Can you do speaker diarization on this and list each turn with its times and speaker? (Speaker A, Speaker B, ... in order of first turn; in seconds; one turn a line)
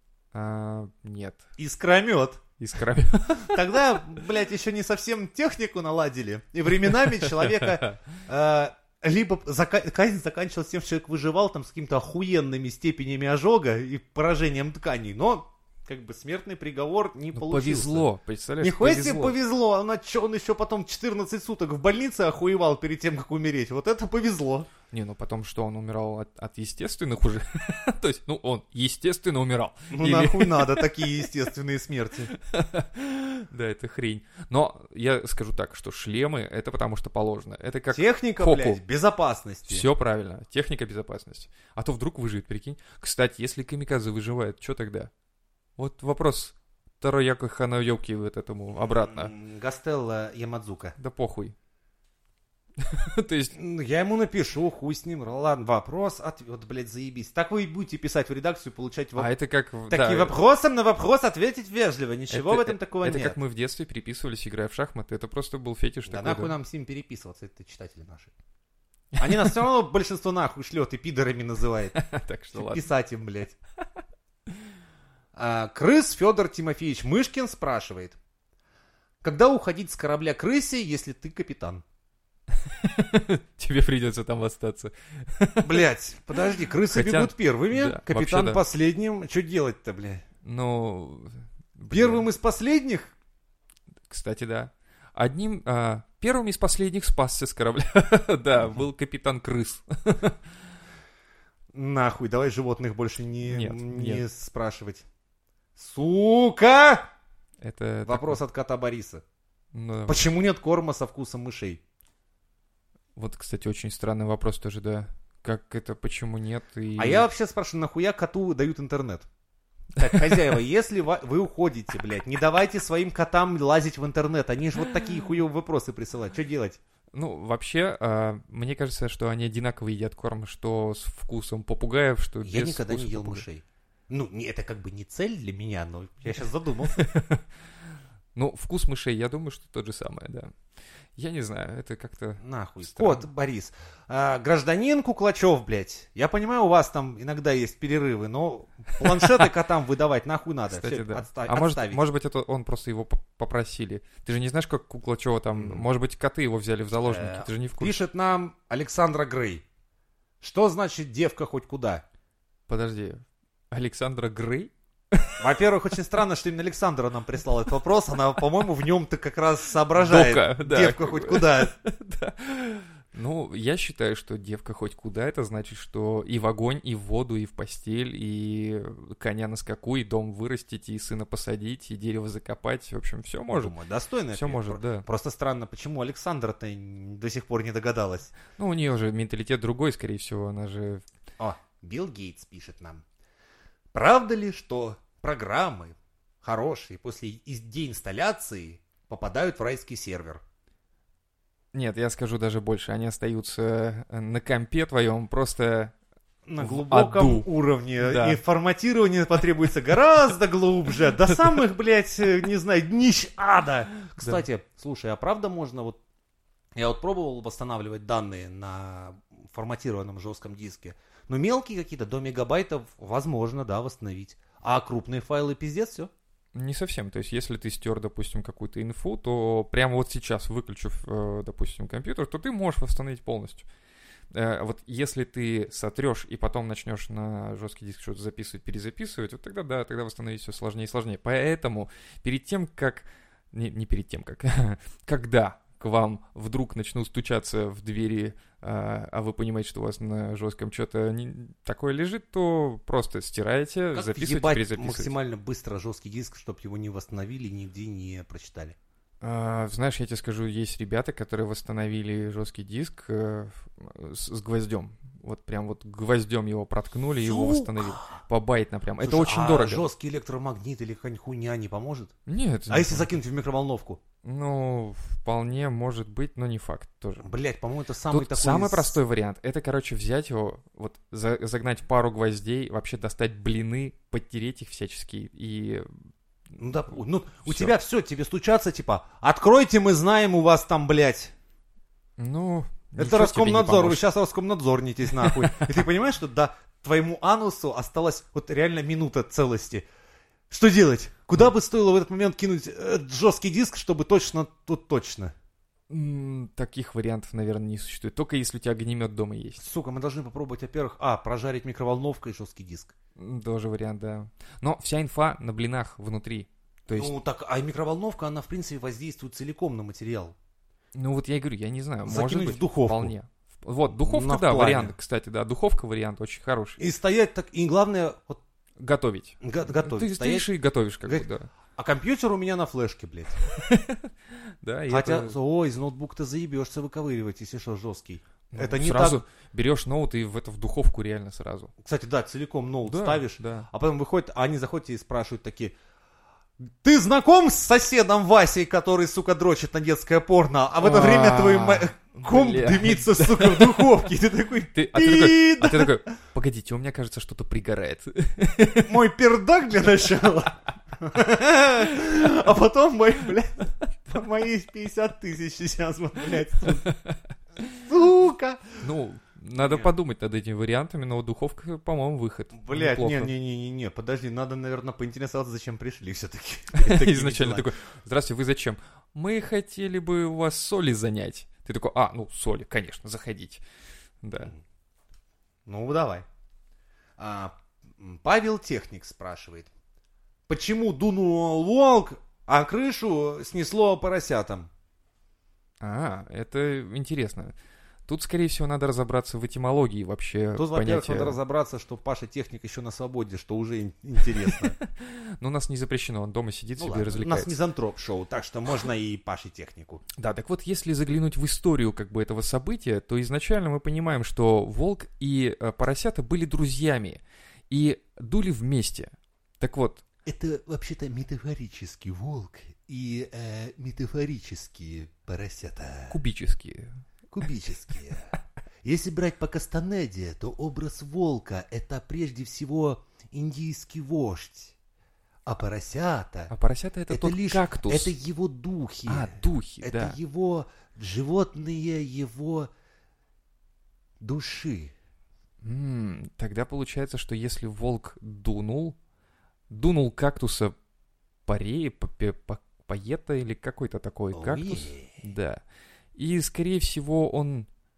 Speaker A: 0.3-1.4
Speaker B: 1.6-2.4
Speaker A: 2.6-3.8
Speaker B: 3.4-18.1
Speaker A: 6.9-8.0
Speaker A: 17.3-19.4
Speaker B: 18.6-24.7
Speaker A: 24.9-31.3
Speaker B: 29.9-32.3
Speaker A: 32.4-38.8
Speaker B: 37.9-39.9
Speaker A: 39.7-45.1
Speaker A: 45.8-49.3
Speaker B: 49.0-51.0
Speaker A: 51.0-51.5
Speaker A: 52.8-53.5
Speaker B: 53.5-59.3
Speaker A: 59.2-60.4
Speaker B: 59.9-63.4
Speaker A: 62.3-66.5
Speaker B: 66.1-68.3
Speaker B: 69.2-72.0
Speaker A: 69.2-69.5
Speaker A: 71.9-72.9
Speaker B: 72.5-73.6
Speaker B: 75.3-78.2
Speaker B: 79.2-81.8
Speaker A: 82.6-85.9
Speaker B: 85.6-90.2
Speaker A: 86.5-88.6
Speaker A: 90.4-92.3
Speaker B: 91.9-93.1
Speaker A: 94.1-100.4
Speaker B: 101.7-105.0
Speaker A: 103.5-104.2
Speaker B: 105.8-107.1
Speaker A: 107.6-108.4
Speaker B: 108.0-109.2
Speaker A: 109.7-110.2
Speaker B: 110.1-111.8
Speaker A: 113.2-117.3
Speaker B: 117.0-119.3
Speaker B: 120.0-126.8
Speaker A: 120.0-120.5
Speaker A: 127.1-133.4
Speaker B: 132.4-137.1
Speaker A: 136.8-137.5
Speaker A: 138.3-140.5
Speaker A: 141.2-143.3
Speaker B: 142.4-152.0
Speaker A: 149.0-149.5
Speaker A: 150.7-158.0
Speaker B: 155.6-155.8
Speaker B: 157.1-159.6
Speaker B: 160.4-162.0
Speaker A: 162.7-165.5
Speaker B: 165.4-171.8
Speaker A: 169.9-183.7
Speaker B: 183.5-188.3
Speaker A: 184.3-185.1
Speaker A: 188.6-191.0
Speaker B: 191.4-193.0
Speaker B: 193.9-200.4
Speaker A: 201.7-205.9
Speaker B: 206.5-216.0
Speaker A: 206.6-208.4
Speaker B: 216.8-226.1
Speaker A: 226.6-233.7
Speaker A: 234.3-255.2
Speaker B: 253.9-258.8
Speaker A: 259.2-269.9
Speaker B: 267.2-268.2
Speaker B: 269.0-272.1
Speaker A: 272.3-273.1
Speaker B: 272.7-274.0
Speaker A: 274.2-277.3
Speaker B: 277.2-279.0
Speaker A: 278.1-286.0
Speaker B: 286.6-291.3
Speaker A: 287.5-287.7
Speaker A: 292.2-294.1
Speaker B: 293.0-299.9
Speaker A: 295.1-295.8
Speaker B: 300.5-305.3
Speaker A: 305.9-309.6
Speaker B: 309.6-312.9
Speaker A: 313.2-317.1
Speaker B: 316.9-320.4
Speaker A: 320.9-326.9
Speaker B: 322.1-323.1
Speaker B: 324.0-324.9
Speaker B: 326.8-328.4
Speaker A: 328.8-331.5
Speaker B: 329.4-330.5
Speaker B: 331.1-333.5
Speaker A: 333.5-335.4
Speaker B: 334.9-339.2
Speaker A: 338.5-341.7
Speaker B: 341.8-345.8
Speaker A: 342.9-343.7
Speaker B: 346.6-355.9
Speaker A: 350.8-354.1
Speaker A: 354.7-359.0
Speaker B: 358.8-366.9
Speaker B: 367.7-368.8
Speaker A: 368.8-373.3
Speaker B: 369.6-369.9
Speaker B: 372.5-377.7
Speaker A: 376.7-383.6
Speaker A: 384.2-384.5
Speaker B: 385.7-386.2
Speaker B: 387.2-389.7
Speaker B: 390.5-394.7
Speaker A: 395.8-397.6
Speaker A: 398.1-401.4
Speaker B: 400.6-404.8
Speaker A: 404.5-407.6
Speaker B: 406.8-410.0
Speaker A: 410.2-420.0
Speaker B: 420.3-426.2
Speaker A: 426.1-426.9
Speaker B: 427.3-434.7
Speaker B: 435.5-436.5
Speaker A: 436.5-438.1
Speaker B: 437.1-442.7
Speaker A: 439.1-440.2
Speaker B: 444.2-444.9
Speaker A: 445.6-449.0
Speaker A: 449.7-450.8
Speaker A: 451.5-455.6
Speaker B: 454.3-455.2
Speaker A: 456.1-457.7